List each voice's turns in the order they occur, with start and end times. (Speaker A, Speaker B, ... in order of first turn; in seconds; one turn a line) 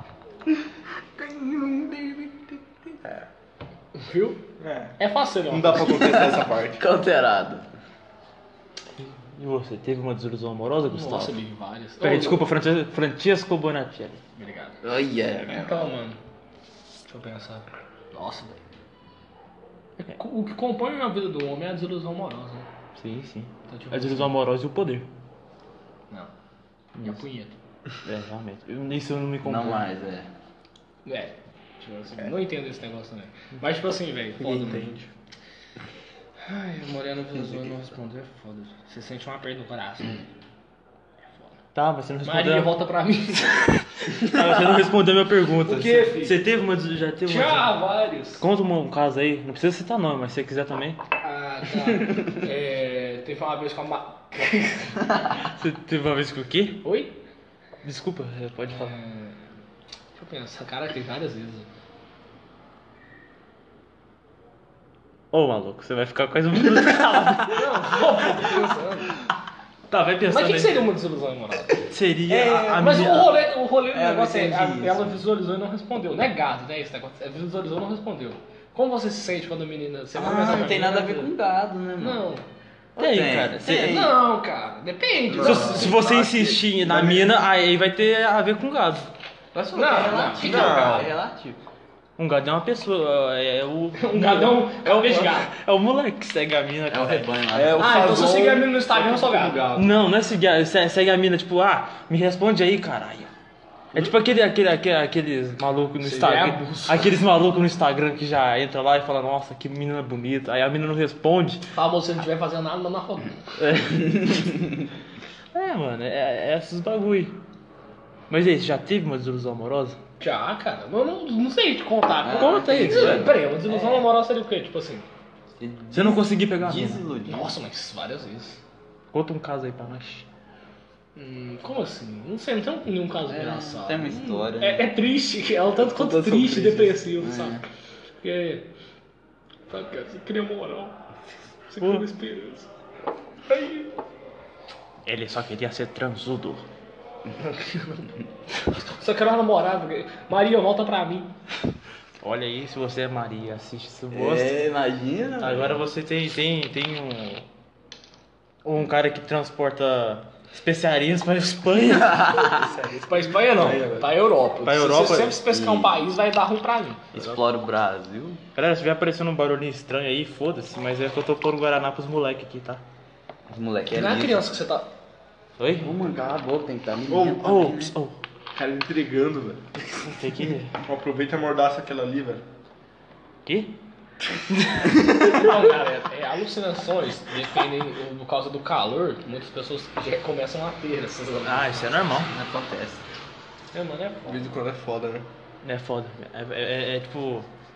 Speaker A: 1.2-3.0
Speaker B: 4.0-4.5
Speaker C: 4.6-4.9
Speaker B: 5.0-6.3
Speaker C: 5.5-6.8
Speaker A: 5.9-7.7
Speaker D: 9.0-11.4
Speaker B: 10.9-12.5
Speaker D: 12.0-14.2
Speaker B: 14.4-14.8
Speaker A: 14.8-15.9
Speaker B: 15.5-16.2
Speaker B: 17.1-18.6
Speaker B: 20.0-22.7
Speaker D: 23.0-25.1
Speaker B: 23.7-24.3
Speaker D: 27.0-27.2
Speaker B: 27.0-27.5
Speaker D: 28.0-29.9
Speaker A: 29.4-30.3
Speaker B: 31.1-35.1
Speaker B: 36.4-40.3
Speaker D: 41.8-42.8
Speaker B: 42.2-43.7
Speaker D: 43.4-47.8
Speaker B: 45.6-46.4
Speaker B: 47.2-48.4
Speaker D: 48.4-51.0
Speaker B: 51.2-55.0
Speaker D: 55.5-56.9
Speaker B: 56.8-57.1
Speaker D: 57.8-59.0
Speaker B: 58.7-59.5
Speaker B: 60.1-61.7
Speaker D: 65.3-68.3
Speaker B: 67.5-69.1
Speaker D: 69.9-70.9
Speaker B: 70.3-71.7
Speaker D: 71.8-73.4
Speaker B: 72.3-81.3
Speaker A: 73.9-75.2
Speaker A: 80.1-82.2
Speaker B: 82.0-82.4
Speaker A: 83.0-84.2
Speaker D: 83.0-83.9
Speaker B: 83.6-86.0
Speaker C: 85.3-86.0
Speaker A: 85.4-86.6
Speaker D: 85.4-89.1
Speaker C: 86.8-87.3
Speaker A: 89.5-91.6
Speaker B: 89.7-91.0
Speaker C: 90.4-91.1
Speaker D: 90.4-91.0
Speaker D: 92.2-97.3
Speaker B: 94.0-95.5
Speaker A: 96.9-98.1
Speaker C: 97.5-99.9
Speaker B: 97.8-99.7
Speaker D: 99.7-103.3
Speaker D: 103.9-111.6
Speaker B: 106.0-107.1
Speaker B: 111.7-113.5
Speaker D: 113.6-114.5
Speaker D: 115.5-117.3
Speaker D: 118.3-120.0
Speaker B: 120.2-125.1
Speaker A: 122.2-124.0
Speaker D: 122.3-123.4
Speaker A: 125.6-127.6
Speaker D: 125.9-127.0
Speaker B: 127.3-128.6
Speaker D: 129.1-130.3
Speaker B: 131.2-137.6
Speaker A: 133.3-134.9
Speaker A: 136.0-137.6
Speaker B: 138.2-138.7
Speaker B: 139.7-141.0
Speaker B: 141.7-142.7
Speaker B: 143.5-143.9
Speaker D: 145.1-146.7
Speaker B: 147.4-151.3
Speaker D: 152.2-154.6
Speaker A: 154.1-155.8
Speaker D: 155.4-157.5
Speaker D: 158.7-162.5
Speaker A: 162.2-162.6
Speaker C: 162.6-164.1
Speaker B: 162.9-167.0
Speaker D: 164.7-165.4
Speaker A: 165.5-165.9
Speaker A: 167.1-168.4
Speaker D: 168.6-172.8
Speaker A: 173.5-174.4
Speaker B: 173.9-174.9
Speaker D: 175.6-176.0
Speaker A: 175.8-177.9
Speaker C: 177.1-177.4
Speaker D: 177.4-178.2
Speaker C: 178.5-179.6
Speaker D: 179.9-180.8
Speaker C: 180.8-182.4
Speaker D: 183.5-183.7
Speaker D: 184.5-185.4
Speaker B: 185.2-192.0
Speaker D: 191.4-192.3
Speaker A: 192.2-193.1
Speaker B: 193.7-194.5
Speaker C: 194.3-195.3
Speaker D: 195.6-197.5